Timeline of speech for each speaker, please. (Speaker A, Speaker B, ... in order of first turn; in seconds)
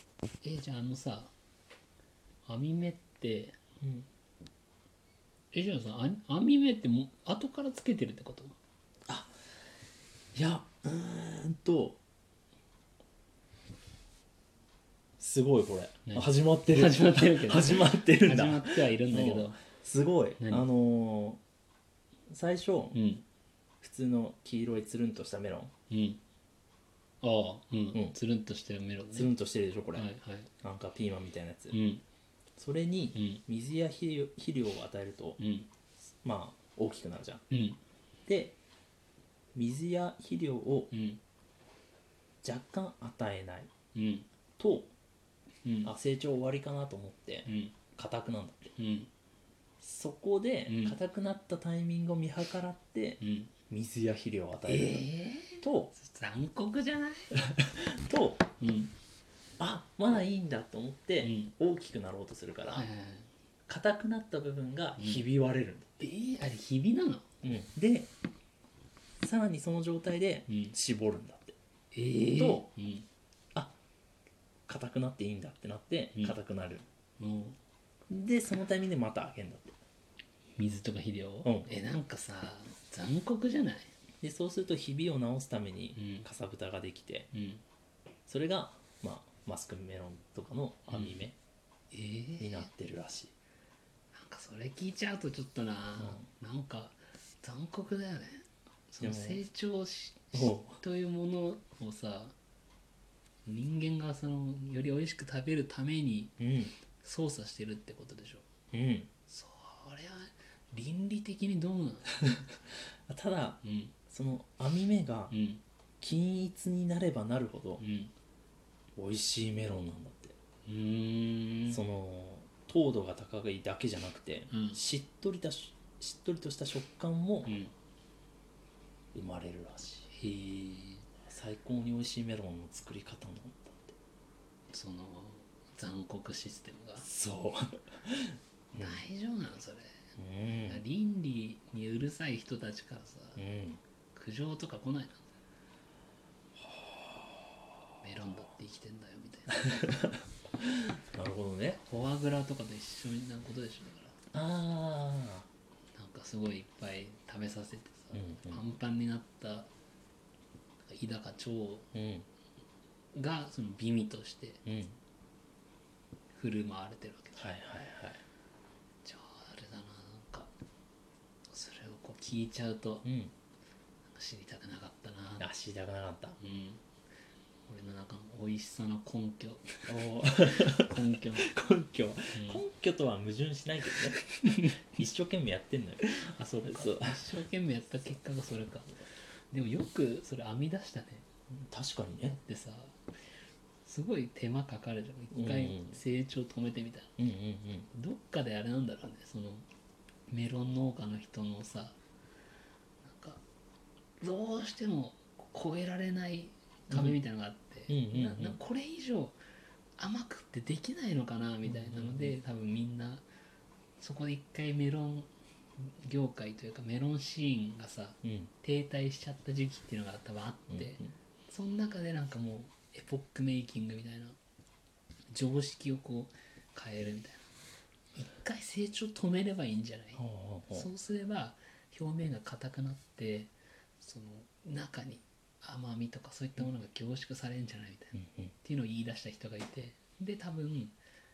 Speaker A: 0.4-1.3, 2.5-3.6, 5.5-8.6, 16.1-19.6, 20.4-20.7, 22.9-23.2, 25.9-26.2, 27.2-29.3, 29.9-30.5, 31.7-32.0, 33.1-33.4, 35.4-35.7, 37.5-37.8, 40.9-41.2, 43.9-44.3, 45.6-45.9, 47.5-47.8, 48.8-49.1, 50.7-51.0, 53.2-53.5, 54.7-57.3, 58.6-58.9, 61.2-61.5, 62.7-63.3, 65.0-65.2, 66.0-67.3, 70.5-70.8, 71.9-73.1, 77.2-77.6, 80.6-83.9, 86.0-86.3, 87.3-87.6, 90.9-91.2, 91.9-92.7, 94.1-102.3, 103.5-108.5, 109.3-112.3, 113.6-113.9, 115.3-115.6, 117.8-118.1, 120.7-121.8, 124.5-124.8, 127.5-127.7, 130.1-131.1, 134.7-137.1, 138.8-140.0, 140.7-143.4, 144.1-145.3, 148.0-149.8, 151.8-154.2, 155.9-159.7, 160.8-161.9, 163.1-164.6, 166.3-167.5, 169.0-170.5, 171.5-173.1, 174.1-175.5, 176.4-176.8, 177.7-181.5, 182.3-182.6, 183.9-184.8, 186.1-191.2, 192.4-193.1, 193.8-197.1, 197.9-199.7, 200.3-202.0, 203.0-203.4, 204.2-209.4, 210.0-213.2, 214.0-224.4, 225.3-227.5, 228.2-241.0
Speaker B: 3.8-4.1, 9.1-9.3, 10.3-12.0, 15.2-21.4, 22.3-23.0, 23.8-25.7, 29.1-30.1, 30.6-31.8, 32.6-35.4, 36.2-37.5, 38.3-38.6, 39.5-40.9, 42.4-43.7, 44.6-44.9, 45.8-48.7, 49.8-55.9, 57.4-58.5, 59.6-62.9, 63.7-66.0, 67.4-68.1, 69.2-71.6, 72.3-72.7, 74.7-76.9, 78.1-79.8, 84.2-87.3, 88.3-91.4, 92.4-93.3, 96.0-96.3, 99.0-99.4, 100.3-100.8, 106.4-106.7, 108.7-109.1, 113.1-115.4, 116.0-117.8, 119.0-120.3, 121.7-127.6, 129.1-130.1, 131.2-133.9, 137.0-139.0, 140.2-140.8, 143.4-143.8, 149.7-151.8, 154.3-155.5, 158.1-158.6, 161.9-162.3, 164.7-165.0, 167.4-168.2, 173.1-173.3, 175.4-176.4, 179.9-187.3, 191.5-192.4, 195.3-196.0, 197.2-197.9, 206.9-207.2, 207.9-208.6, 211.7-212.4, 218.2-218.5, 220.7-221.1, 230.2-230.9, 238.2-238.5